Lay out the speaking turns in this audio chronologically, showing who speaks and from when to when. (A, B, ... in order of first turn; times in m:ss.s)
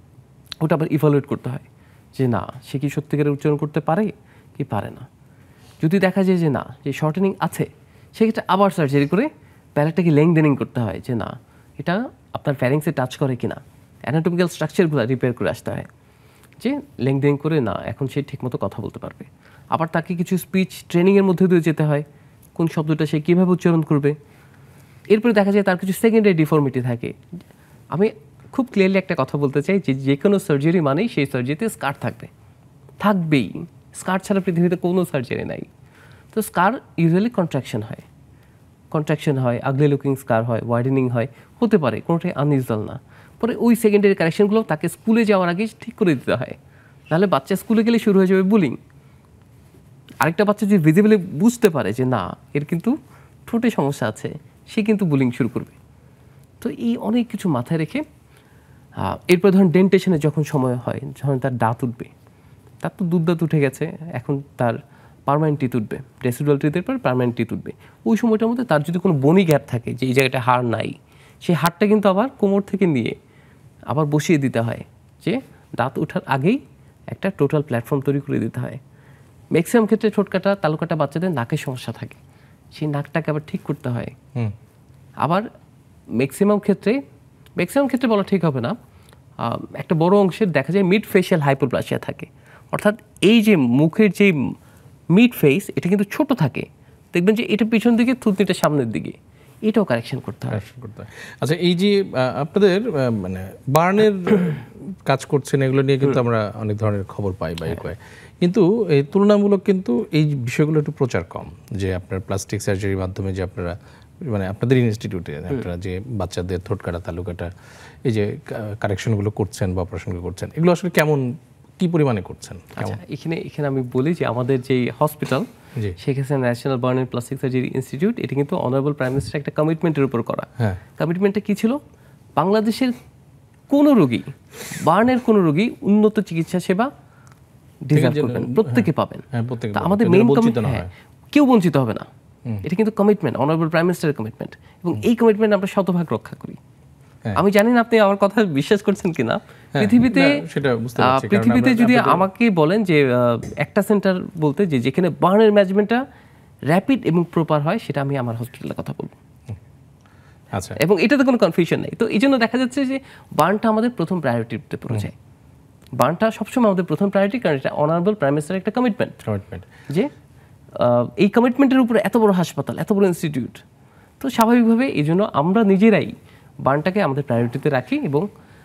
0:00.6-0:05.1 A
0:05.8-0:15.9 A
0:16.6-0:22.0 A
0:22.6-0:24.2 A
0:25.1-0:27.2 A
0:27.9-0:32.3 A
0:33.0-0:35.7 A
0:36.3-0:38.0 A
0:38.9-0:46.6 A
0:47.1-0:48.8 A
0:50.2-0:52.9 A
0:53.5-0:55.8 A
0:56.6-0:58.0 A
0:59.0-1:02.1 A
1:02.8-1:13.1 A
1:13.9-1:16.6 A
1:17.1-1:18.8 A
1:19.5-1:22.2 A
1:22.7-1:24.1 A
1:26.1-1:27.0 A
1:27.6-1:28.8 A
1:29.4-1:34.5 A
1:35.1-1:40.6 A
1:40.5-1:57.5 B
1:58.0-2:03.0 B
2:02.8-2:05.5 A
2:06.0-2:11.8 A
2:12.4-2:13.0 A
2:13.7-2:16.9 A
2:17.8-2:22.1 A
2:17.9-2:20.9 B
2:22.6-2:26.6 A
2:27.4-2:30.4 A
2:29.7-2:32.3 B
2:31.0-2:36.0 A
2:36.7-2:39.2 A
2:40.5-2:40.8 B
2:40.8-2:45.1 A
2:46.0-2:49.2 A
2:49.2-2:49.7 B
2:50.7-2:53.6 A
2:54.2-2:58.3 A